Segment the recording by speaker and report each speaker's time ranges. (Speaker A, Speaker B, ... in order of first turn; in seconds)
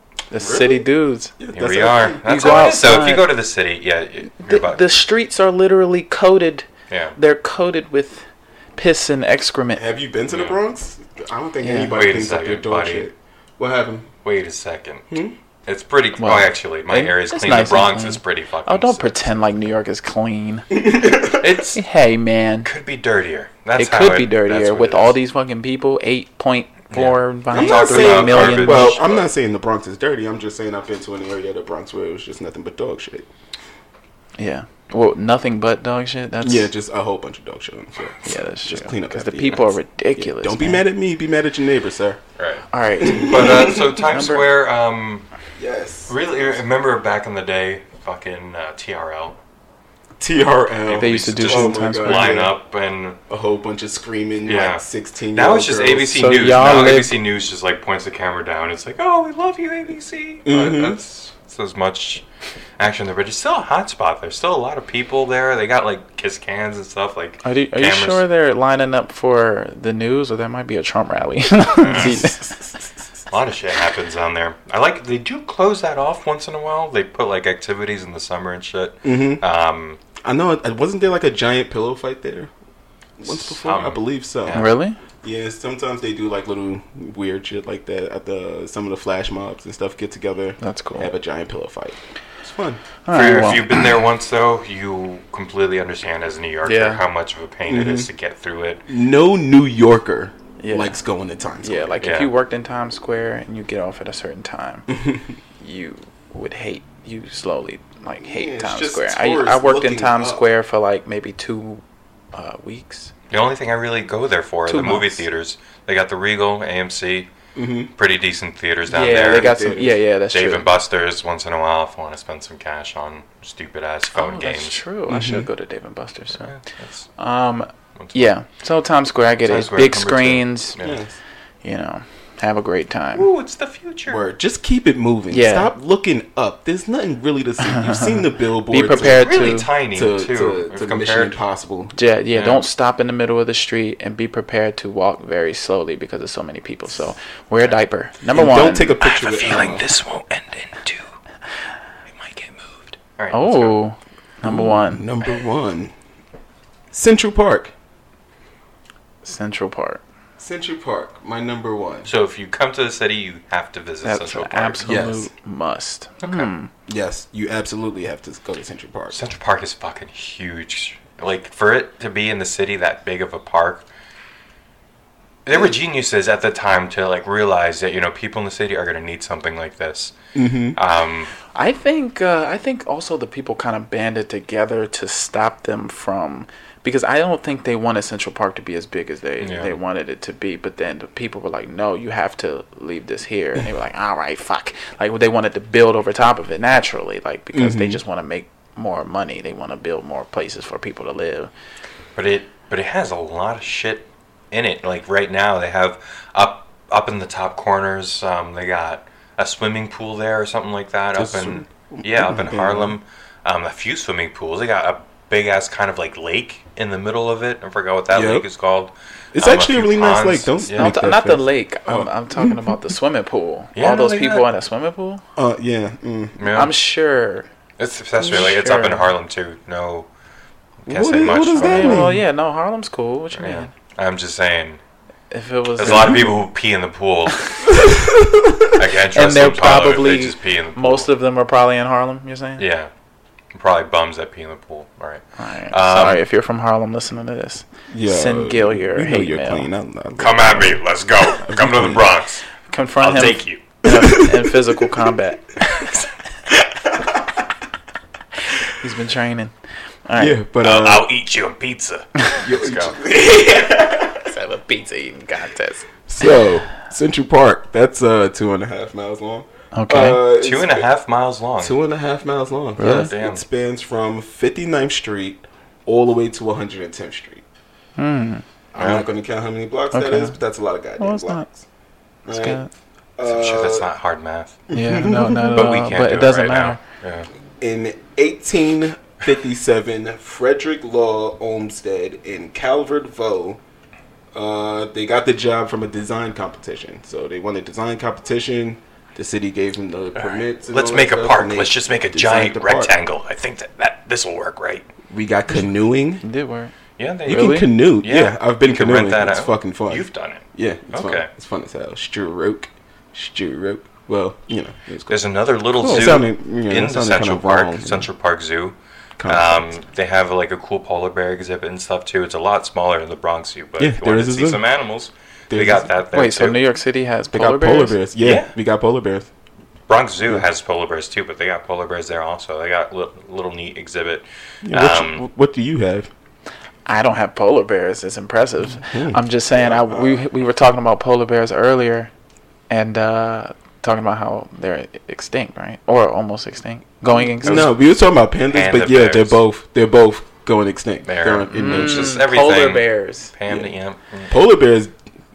Speaker A: 0.3-1.3, 2.2-3.3, 4.4-9.9, 11.6-11.9, 16.2-20.7, 21.8-22.7, 23.8-29.0, 34.4-36.7, 38.2-40.9, 42.7-44.5, 50.9-52.4, 56.1-57.1, 67.4-72.5, 84.5-85.0, 90.6-91.1, 93.1-93.9, 96.7-97.0, 100.6-101.0, 101.6-104.9, 105.6-111.8, 112.3-113.1, 114.7-115.2, 118.9-120.7, 124.1-126.5, 127.2-130.8, 131.6-133.3, 135.3-135.7, 137.6-139.7, 141.9-149.0, 153.3-155.1, 159.2-160.0, 164.0-166.7, 181.6-201.5, 220.7-225.2, 226.5-227.5, 228.2-229.1, 231.6-233.7, 235.3-236.3, 239.1-242.6, 245.4-249.7, 252.7-255.6, 258.7-259.5, 260.1-260.4, 264.2-265.9, 269.7-270.2, 272.8-273.1, 278.0-278.4, 279.9-280.4, 281.0-281.5, 282.3-282.7, 284.7-286.8, 306.2-306.7, 307.3-307.6, 326.1-328.0, 336.9-342.1, 342.7-347.7, 351.5-353.3
Speaker B: 0.3-0.9, 1.4-2.6, 9.8-14.1, 15.1-15.3, 20.7-21.5, 27.5-33.3, 36.4-42.2, 43.0-44.0, 45.6-46.6, 50.2-52.5, 53.3-56.4, 60.5-61.0, 71.9-72.8, 79.0-79.4, 80.2-82.5, 83.2-84.6, 85.2-92.8, 97.7-98.1, 98.9-102.0, 104.9-105.4, 108.2-110.5, 117.5-117.9, 119.0-120.0, 125.1-125.5, 130.8-131.2, 134.1-142.0, 148.3-149.9, 154.4-155.9, 156.9-157.7, 160.4-162.1, 164.8-165.3, 166.9-169.2, 180.3-180.8, 197.5-198.0, 211.2-213.0, 218.1-218.5, 219.3-222.8, 225.4-226.4, 230.9-232.2, 237.8-238.7, 247.9-250.8, 251.4-252.1, 253.8-254.8, 260.2-261.1, 262.4-264.3, 266.1-270.9, 271.6-277.4, 278.7-281.6, 282.3-282.6, 283.2-283.9, 284.7-285.8, 287.6-293.6, 294.3-302.9, 305.1-306.2, 307.3-315.2, 315.8-318.1, 319.2-319.7, 323.8-324.6, 325.5-325.9, 327.3-329.3, 334.6-336.1, 338.8-340.2, 347.2-352.2, 353.5-353.7, 354.3-355.0
Speaker C: 1.5-5.0, 6.9-7.2, 10.3-10.6, 11.9-13.1, 14.2-19.6, 21.3-21.8, 22.6-25.2, 26.9-29.2, 42.4-45.3, 46.1-49.4, 50.9-53.2, 54.5-54.8, 55.3-62.2, 62.8-68.2, 71.8-72.3, 73.3-80.0, 83.3-84.8, 93.1-98.8, 102.0-102.3, 113.3-117.3, 118.0-119.5, 120.3-124.8, 126.3-127.1, 128.0-128.3, 129.4-131.0, 133.2-134.2, 138.9-141.4, 142.3-142.7, 149.0-151.1, 152.1-153.8, 162.1-165.0, 166.2-166.5, 169.1-173.9, 175.4-180.2, 180.8-181.3, 189.4-189.8, 202.2-221.0, 223.8-224.5, 226.4-226.8, 227.8-230.1, 230.8-232.2, 233.3-234.8, 235.8-237.7, 238.7-241.1, 242.6-242.9, 243.5-246.2, 250.2-252.4, 253.0-253.6, 260.6-263.0, 270.4-271.8, 272.8-273.4, 278.8-279.1, 283.3-284.6, 285.5-287.3, 300.2-304.9, 307.0-311.3, 315.1-326.6, 328.2-328.5, 329.9-335.2, 347.4-347.7, 348.5-349.4, 351.1-354.3